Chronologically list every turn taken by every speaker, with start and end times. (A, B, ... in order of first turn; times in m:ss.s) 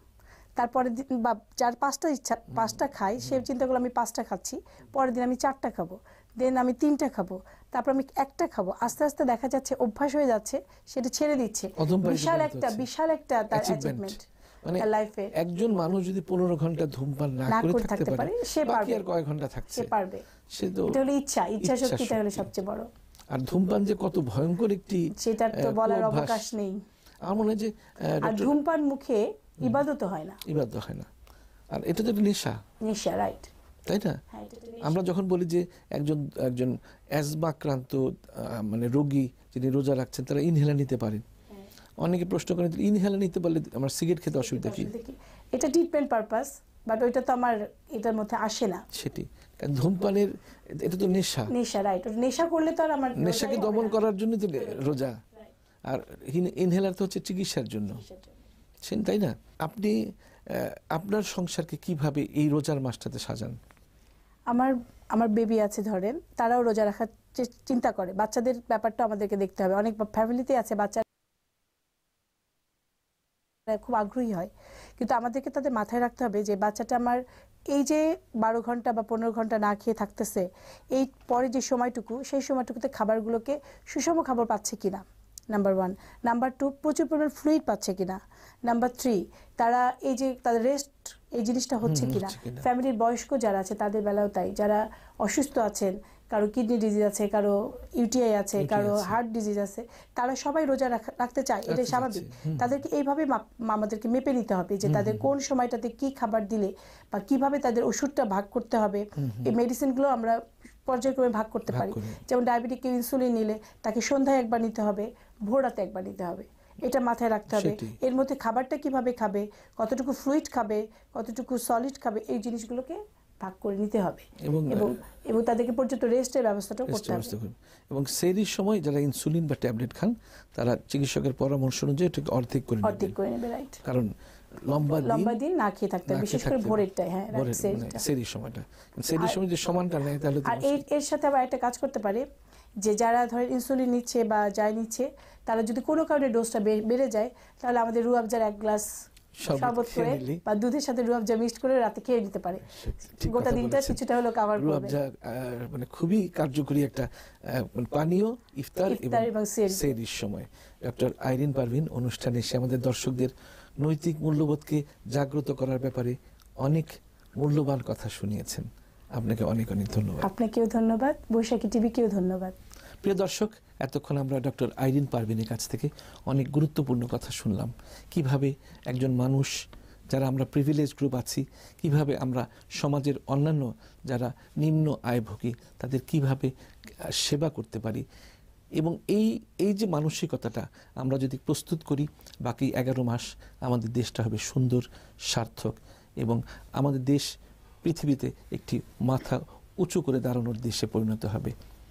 0:00.6-0:14.2 A
0:11.8-0:12.9 B
0:13.5-0:19.9 B
0:14.8-0:15.3 A
0:17.5-0:19.0 A
0:19.7-0:20.2 A
0:20.5-0:21.0 B
0:20.9-0:22.9 A
0:21.6-0:22.5 B
0:23.3-0:26.5 B
0:25.1-0:26.8 A
0:27.2-0:28.6 B
0:28.2-0:30.4 A
0:30.4-0:31.1 B
0:31.7-0:32.6 B
0:32.8-0:33.5 A
0:33.8-0:34.2 B
0:34.3-0:35.0 A
0:34.8-0:41.2 B
0:42.0-0:44.9 B
0:44.4-0:48.8 A
0:48.9-0:51.5 B
0:51.5-0:54.0 A
0:53.2-0:55.2 B
0:54.6-0:55.0 A
0:55.8-0:58.0 B
0:58.0-0:58.4 A
0:58.8-1:00.0 B
1:00.5-1:03.6 B
1:04.5-1:11.0 A
1:13.7-2:07.3 A
1:31.8-1:32.7 B
1:38.6-1:39.2 B
1:41.7-1:42.7 B
1:44.8-1:45.3 B
1:49.2-1:49.5 B
1:51.7-1:52.2 B
1:57.5-1:58.0 B
2:04.4-2:04.9 B
2:06.9-2:13.1 B
2:12.8-2:13.8 A
2:13.8-2:15.4 B
2:15.0-2:18.0 A
2:16.1-2:20.8 B
2:20.4-2:22.2 A
2:22.8-2:28.9 A
2:29.4-2:30.4 B
2:29.5-2:35.0 A
2:32.7-2:34.0 B
2:34.5-2:50.3 B
2:38.9-2:39.9 A
2:50.2-2:52.5 A
2:53.0-2:59.6 B
3:00.1-3:06.5 B
3:07.0-3:08.0 B
3:08.8-3:17.3 B
3:17.8-3:21.5 B